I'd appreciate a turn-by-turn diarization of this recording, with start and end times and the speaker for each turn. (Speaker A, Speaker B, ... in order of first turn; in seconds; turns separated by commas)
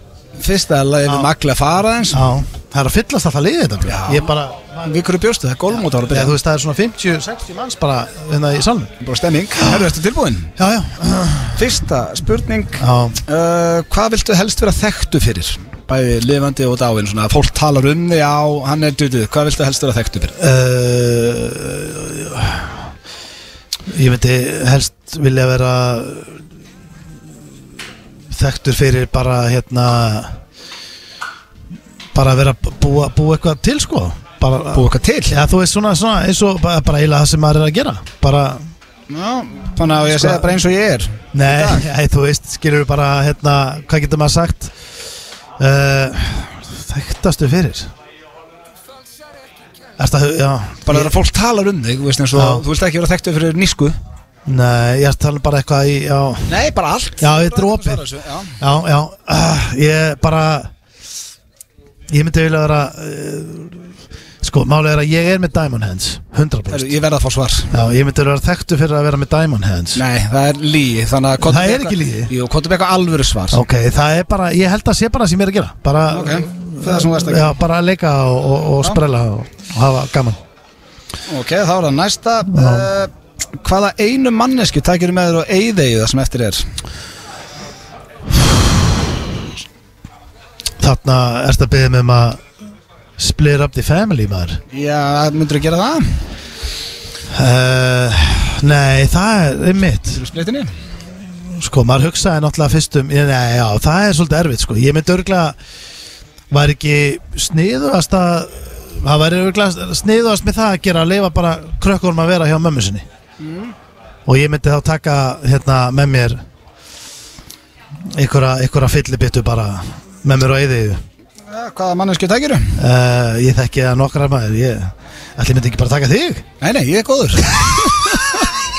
Speaker A: 0.4-2.2, Speaker B: 2.1-4.9, Speaker A: 3.9-4.3, Speaker A: 4.8-6.3, Speaker B: 6.1-8.9, Speaker A: 9.0-10.5, Speaker B: 9.6-9.8, Speaker B: 10.6-11.7, Speaker A: 11.6-20.4, Speaker B: 12.8-13.2, Speaker B: 20.4-22.8, Speaker B: 23.9-26.4, Speaker B: 28.3-30.4, Speaker B: 32.1-38.7, Speaker A: 34.7-35.4, Speaker A: 39.1-41.9, Speaker B: 40.1-40.5, Speaker B: 41.3-44.7, Speaker B: 45.6-47.9, Speaker B: 50.0-51.2, Speaker A: 50.9-54.0, Speaker B: 52.3-52.6, Speaker B: 54.5-56.5, Speaker A: 56.5-58.6, Speaker B: 57.2-58.0, Speaker B: 58.6-60.7, Speaker B: 62.1-63.9, Speaker B: 64.4-66.9, Speaker A: 66.7-67.7, Speaker B: 67.7-70.0, Speaker A: 70.0-73.6, Speaker B: 71.4-72.3, Speaker B: 73.5-80.4, Speaker A: 76.1-77.5, Speaker A: 81.3-86.7, Speaker B: 82.5-82.9, Speaker B: 90.8-92.4, Speaker B: 93.2-94.6, Speaker A: 94.7-96.2, Speaker B: 97.3-100.2, Speaker A: 100.1-100.7, Speaker B: 101.5-105.6, Speaker B: 106.5-113.0, Speaker A: 113.4-113.7, Speaker B: 114.3-116.4, Speaker B: 118.1-121.0, Speaker A: 121.5-122.8, Speaker B: 122.8-126.5, Speaker A: 126.6-128.4